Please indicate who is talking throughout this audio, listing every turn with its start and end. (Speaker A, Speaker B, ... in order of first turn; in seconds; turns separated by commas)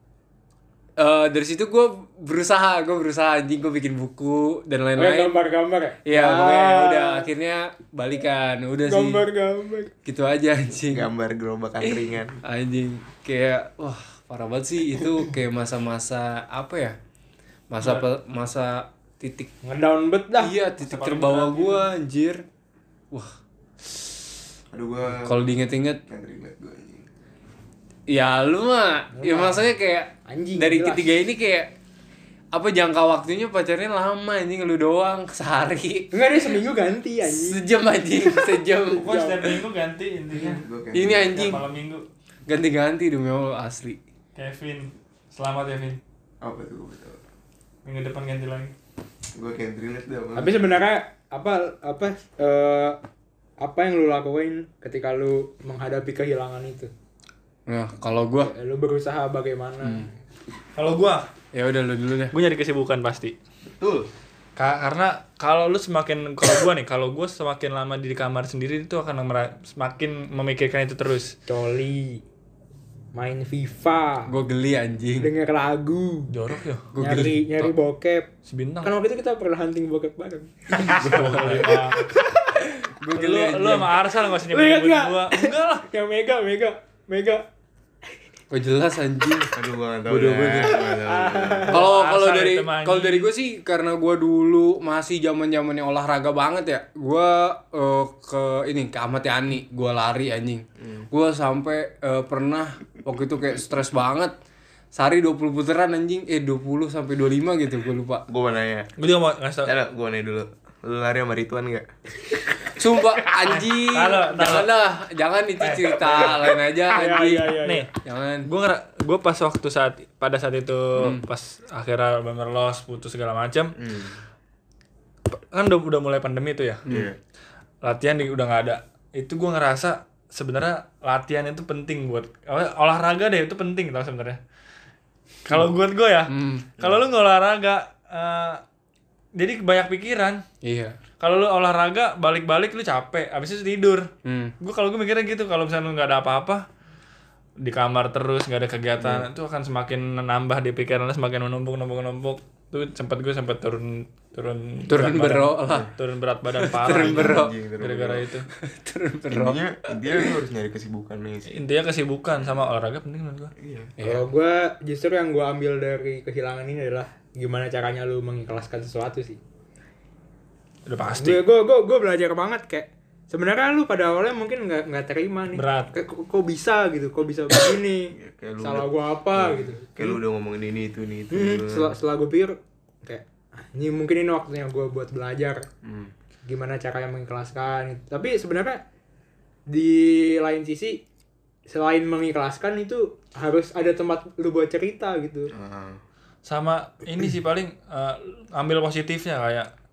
Speaker A: 1.0-5.4, Speaker B: 5.0-7.3, Speaker A: 6.0-9.3, Speaker B: 8.9-9.9, Speaker A: 10.1-11.1, Speaker C: 10.9-12.4, Speaker A: 11.8-17.0, Speaker A: 17.7-19.5, Speaker D: 17.8-18.1, Speaker B: 19.6-20.6, Speaker A: 20.4-22.4, Speaker D: 20.8-21.9, Speaker C: 24.7-25.6, Speaker A: 25.1-26.0, Speaker C: 26.1-27.1, Speaker A: 28.1-31.7, Speaker B: 29.1-29.7, Speaker B: 30.3-31.1, Speaker A: 32.5-36.1, Speaker B: 36.1-37.6, Speaker A: 37.3-39.6, Speaker B: 38.3-39.5, Speaker D: 39.0-42.1, Speaker C: 40.4-41.6, Speaker A: 40.9-41.6, Speaker A: 42.5-44.0, Speaker D: 44.4-46.0, Speaker C: 46.4-47.2, Speaker D: 47.9-48.7, Speaker C: 49.4-50.6, Speaker B: 50.4-53.0, Speaker B: 53.6-56.9, Speaker A: 57.7-58.5, Speaker B: 58.4-60.1, Speaker A: 59.8-60.1, Speaker D: 60.8-61.3, Speaker A: 61.5-62.3, Speaker D: 62.3-63.4, Speaker C: 63.6-64.1, Speaker D: 64.6-71.3, Speaker B: 71.5-72.2, Speaker B: 73.2-74.3, Speaker A: 74.3-75.3, Speaker B: 75.2-76.3, Speaker D: 76.3-76.9, Speaker A: 76.9-77.5, Speaker B: 77.0-78.3, Speaker D: 78.5-79.0, Speaker B: 78.8-82.6, Speaker D: 80.8-82.2, Speaker A: 80.9-81.9, Speaker A: 82.8-84.0, Speaker D: 83.2-85.9, Speaker B: 84.5-87.4, Speaker A: 88.5-89.6, Speaker C: 89.5-91.8, Speaker A: 90.1-90.8, Speaker B: 90.7-91.8, Speaker A: 91.7-104.3, Speaker D: 91.7-93.3, Speaker A: 104.9-108.2, Speaker C: 108.3-108.9, Speaker D: 109.0-109.7, Speaker C: 109.7-111.9, Speaker A: 112.7-118.5, Speaker D: 113.4-114.7, Speaker D: 115.6-116.5, Speaker B: 116.9-117.9, Speaker D: 117.6-117.9, Speaker D: 118.5-123.8, Speaker A: 121.0-121.2, Speaker C: 123.8-124.2, Speaker D: 125.3-126.8, Speaker C: 126.9-127.2, Speaker D: 127.8-134.4, Speaker D: 135.5-138.6, Speaker A: 136.3-136.7, Speaker C: 136.8-137.0, Speaker D: 139.4-140.4, Speaker A: 140.6-141.0, Speaker D: 141.2-146.7, Speaker A: 144.2-144.5, Speaker D: 147.6-158.5, Speaker C: 149.0-149.3, Speaker A: 154.9-155.9, Speaker A: 156.5-157.6, Speaker C: 156.9-158.3, Speaker A: 158.6-160.3, Speaker C: 159.3-161.5, Speaker D: 161.5-163.5, Speaker C: 162.4-162.7, Speaker C: 163.6-163.9, Speaker A: 164.0-164.3, Speaker B: 164.0-169.4, Speaker D: 170.9-171.4, Speaker B: 171.1-180.2, Speaker D: 175.5-175.9, Speaker C: 178.2-181.9, Speaker B: 181.3-185.7, Speaker C: 185.8-186.1, Speaker B: 186.5-188.8, Speaker B: 189.7-191.0, Speaker B: 191.7-195.5, Speaker C: 195.5-196.0, Speaker D: 196.4-199.7